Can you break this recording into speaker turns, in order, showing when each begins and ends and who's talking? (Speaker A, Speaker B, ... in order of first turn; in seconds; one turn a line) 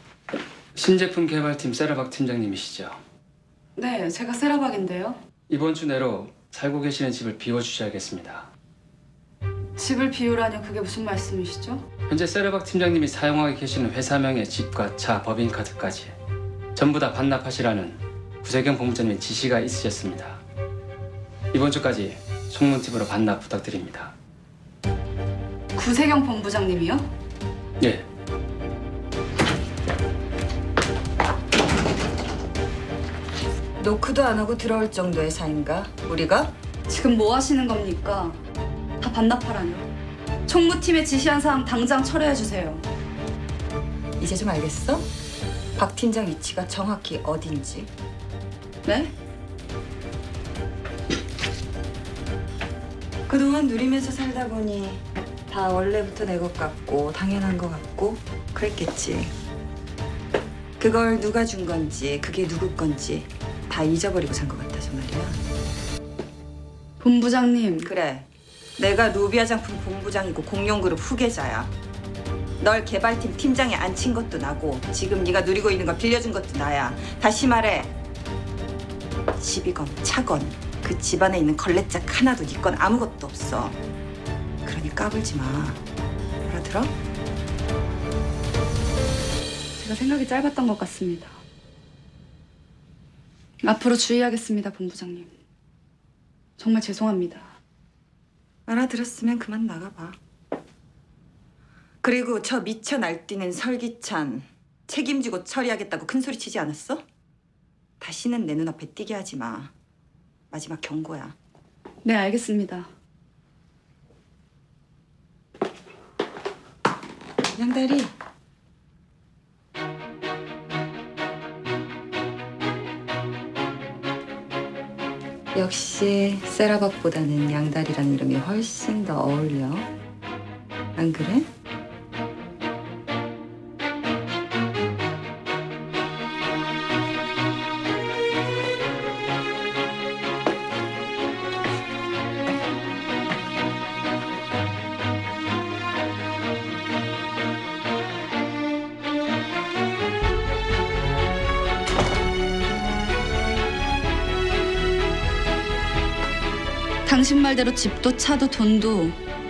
Speaker A: 0.8-3.0
Speaker B: 3.8-5.2
Speaker A: 5.5-8.5
Speaker B: 9.8-11.8
Speaker A: 12.1-16.1
Speaker A: 16.7-20.4
Speaker A: 21.5-24.1
Speaker B: 25.7-27.1
Speaker A: 27.8-28.1
Speaker C: 33.8-36.5
Speaker B: 36.9-38.4
Speaker B: 39.0-39.9
Speaker B: 40.5-42.9
Speaker C: 44.2-45.1
Speaker C: 45.8-47.9
Speaker B: 48.8-49.1
Speaker C: 53.3-59.3
Speaker C: 60.8-65.4
Speaker B: 67.0-67.9
Speaker C: 67.8-71.7
Speaker C: 72.6-77.9
Speaker C: 79.4-83.8
Speaker C: 84.6-85.8
Speaker C: 86.4-86.9
Speaker B: 89.8-91.4
Speaker B: 93.6-95.3
Speaker B: 96.6-97.5
Speaker C: 98.7-100.2
Speaker C: 102.0-107.0
Speaker C: 108.0-109.7
Speaker C: 110.5-111.3
Speaker B: 112.0-112.9
Speaker C: 117.5-118.1
Speaker C: 125.5-129.9
Speaker C: 131.0-131.5
Speaker B: 157.1-159.2